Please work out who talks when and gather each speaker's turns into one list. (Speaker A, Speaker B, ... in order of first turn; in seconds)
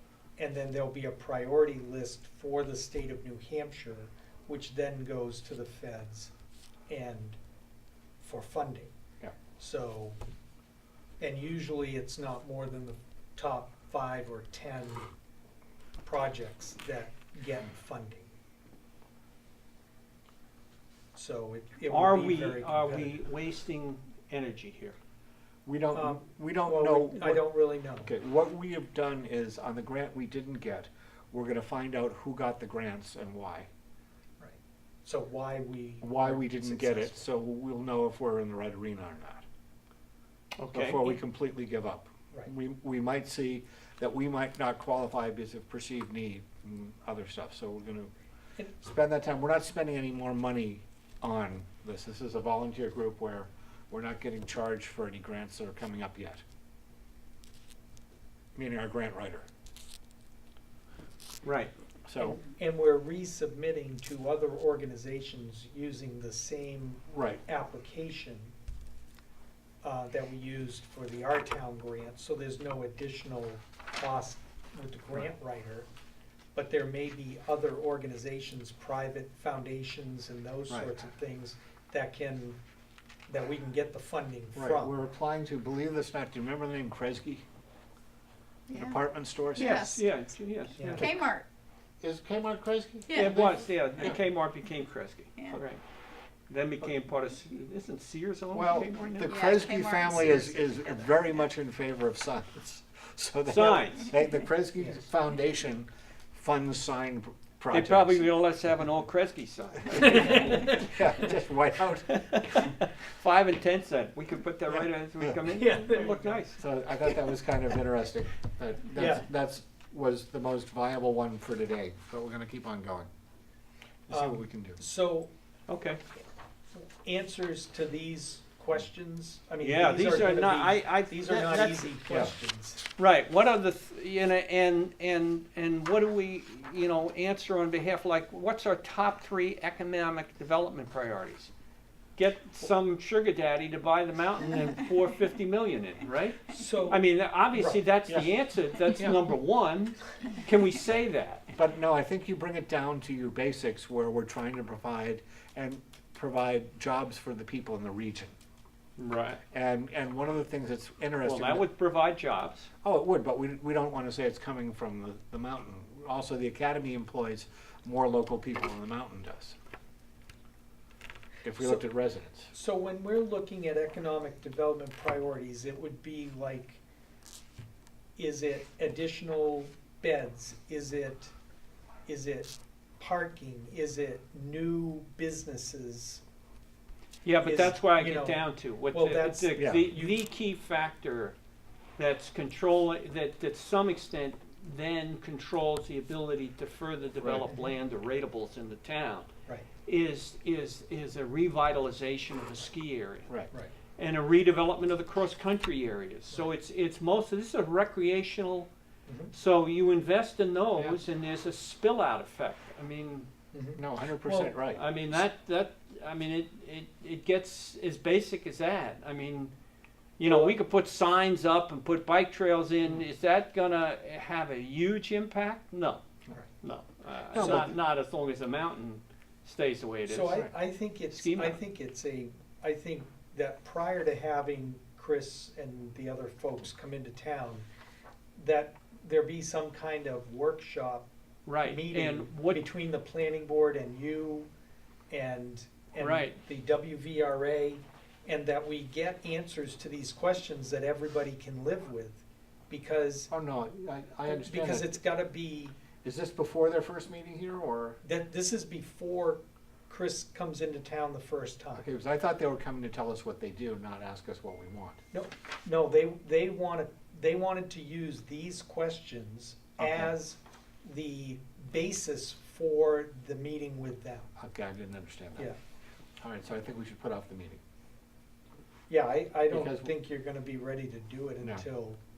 Speaker A: 0.4-6.3, 6.9-7.4, 8.2-8.9, 9.6-10.2, 11.2-15.1, 16.0-18.3, 21.1-23.2, 25.9-28.1, 34.4-37.2, 62.2-68.5, 69.8-75.9, 76.5-82.6, 83.3-85.0, 90.8-91.1, 115.5-116.4, 119.0-119.2, 124.1-125.3, 126.8-132.8, 146.5-147.0, 147.5-147.8, 171.6-171.8, 172.5-176.8, 178.2-181.3, 182.1-186.2, 187.4-190.2, 209.1-209.3, 213.5-214.6, 220.2-220.5, 227.3-227.7, 230.1-237.7, 238.4-241.1, 241.6-244.5, 245.1-253.3, 254.3-255.8, 258.0-261.9, 265.1-274.3, 278.9-282.0
Speaker B: 21.9-25.0, 40.5-41.2, 61.4-61.7, 89.5-91.1, 93.1-95.8, 96.5-99.3, 103.5-104.1, 107.7-111.3, 112.1-116.6, 125.7-126.0, 129.6-131.9, 133.0-141.5, 142.2-151.5, 159.0-159.4, 161.2-162.7, 187.2-191.4, 192.0-199.3, 199.9-203.3, 204.0-208.7, 209.3-213.3, 214.7-219.5, 220.2-226.0, 226.6-230.5, 231.1-231.6, 241.5-242.6, 246.0-246.4
Speaker C: 25.7-27.4, 28.0-33.7, 36.0-39.5, 40.7-48.1, 48.8-56.4, 58.5-59.5, 62.1-62.4, 67.1-67.4, 80.7-81.0, 84.5-87.4, 88.7-89.9, 91.0-91.2, 92.0-94.2, 98.5-108.2, 110.8-112.6, 116.6-123.1, 124.1-124.8, 148.9-149.2, 151.5-158.3, 159.5-161.7, 162.8-169.6, 171.4-172.5, 189.6-189.9, 197.2-197.5, 213.8-214.8, 227.3-227.7, 253.3-255.0, 256.0-258.0, 261.8-265.0, 269.8-270.1, 274.4-275.5, 276.2-277.6, 279.5-279.9
Speaker D: 88.7-90.0, 90.9-91.5, 93.1-93.6, 95.4-95.6, 99.2-101.0